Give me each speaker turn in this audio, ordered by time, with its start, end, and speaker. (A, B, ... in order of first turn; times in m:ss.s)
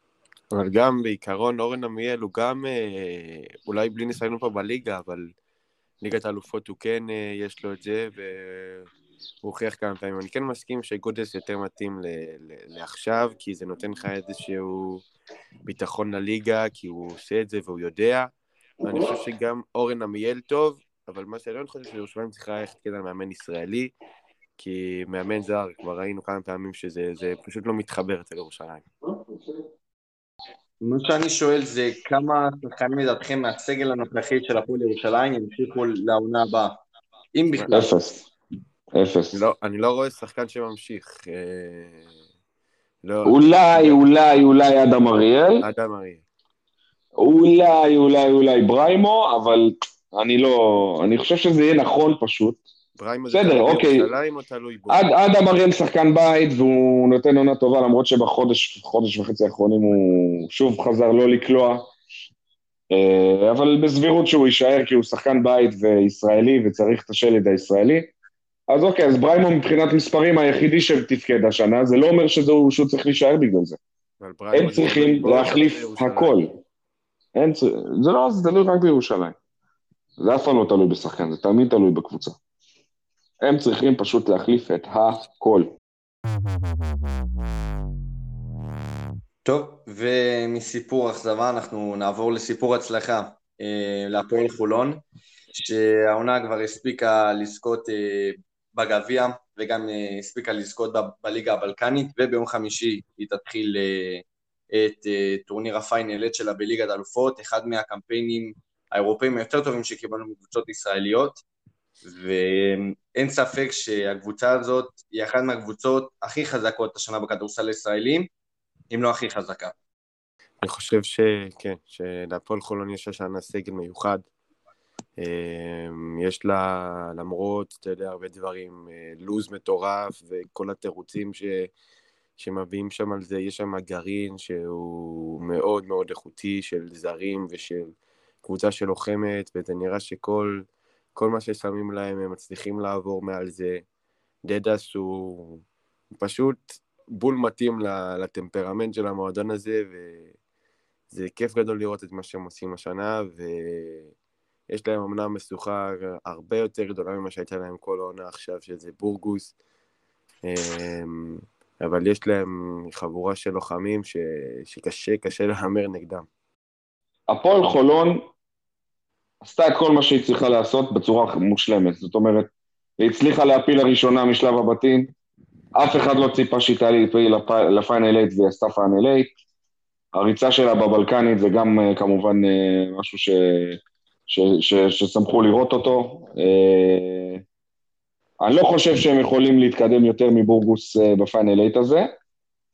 0:00.5-0:05.3 A
0:06.0-0:08.9 A
0:09.4-0:15.0 A
0:15.7-0:23.9 A
0:24.6-0:28.9 A
0:30.8-0:36.8 B
0:37.4-0:37.9 B
0:37.7-0:38.3 C
0:38.9-0:39.4 C
0:39.3-0:42.1 A
0:43.0-0:44.0 A
0:43.2-0:45.6 C
0:45.6-0:46.2 A
0:47.2-0:52.6 C
0:53.0-0:55.1 A
0:53.3-0:54.1 C
0:54.9-1:01.9 C
1:02.9-1:08.1 C
1:08.7-1:13.8 C
1:14.2-1:16.4 A
1:14.5-1:16.6 C
1:17.4-1:19.4 C
1:20.2-1:22.4 C
1:23.4-1:25.7 C
1:29.4-1:35.0 B
1:35.5-1:51.4 B
1:52.0-1:58.3 B
1:58.9-1:59.8 B
2:00.6-2:04.3 A
2:05.2-2:11.7 A
2:12.4-2:23.8 A
2:24.4-2:25.6 A
2:26.2-2:30.4 A
2:31.1-2:34.1 A
2:34.7-2:39.5 A
2:40.4-2:46.3 A
2:47.3-2:48.3 C
2:49.4-2:55.1 C
2:55.8-2:59.3 C
3:00.1-3:07.4 C
3:08.4-3:12.1 C